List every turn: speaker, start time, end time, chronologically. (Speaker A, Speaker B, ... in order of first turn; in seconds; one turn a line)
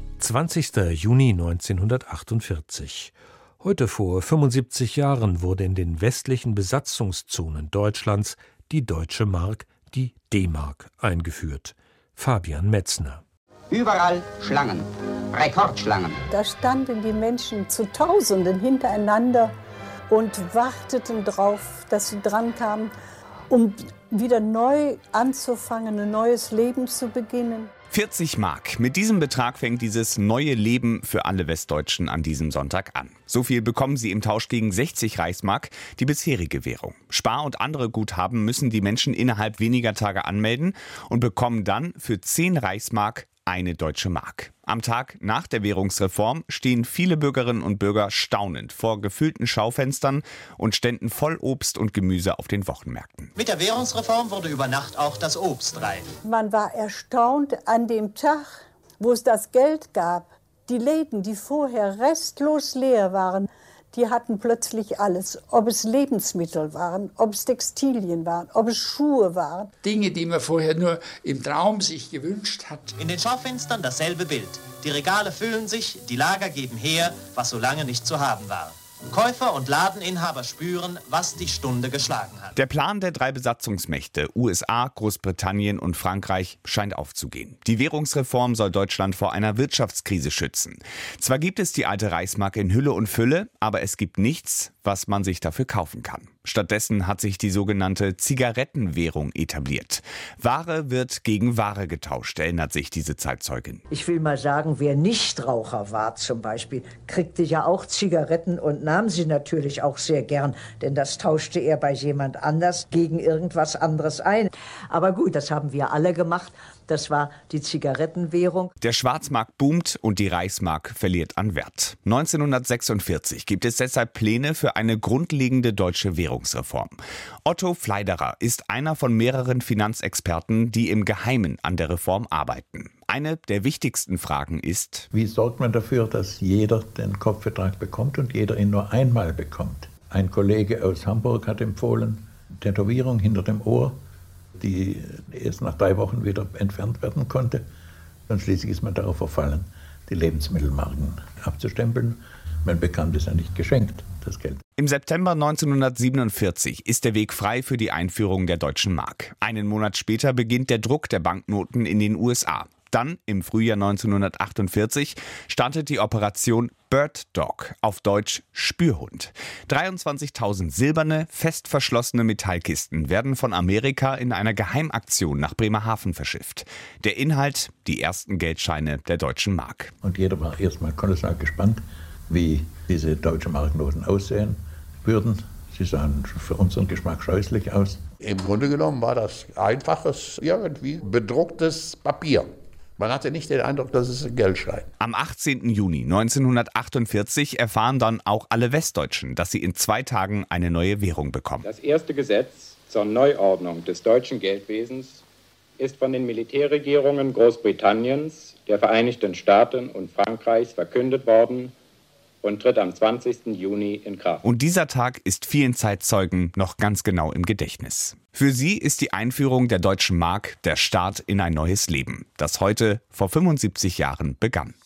Speaker A: 0.2-13.2
Speaker B: 13.7-16.2
Speaker C: 16.3-19.5
Speaker C: 20.1-22.9
Speaker C: 23.5-27.7
Speaker D: 27.9-53.3
Speaker E: 53.4-56.1
Speaker C: 56.2-69.7
Speaker F: 69.8-72.9
Speaker E: 73.0-82.6
Speaker D: 82.5-103.8
Speaker G: 103.9-118.7
Speaker D: 118.8-135.1
Speaker H: 135.1-143.9
Speaker H: 144.6-147.6
Speaker H: 148.3-154.6
Speaker D: 154.8-179.9
Speaker H: 180.0-188.0
Speaker I: 188.2-192.5
Speaker I: 193.0-194.9
Speaker D: 195.0-201.7
Speaker J: 201.6-205.2
Speaker J: 205.8-211.7
Speaker J: 212.4-214.4
Speaker D: 214.4-224.7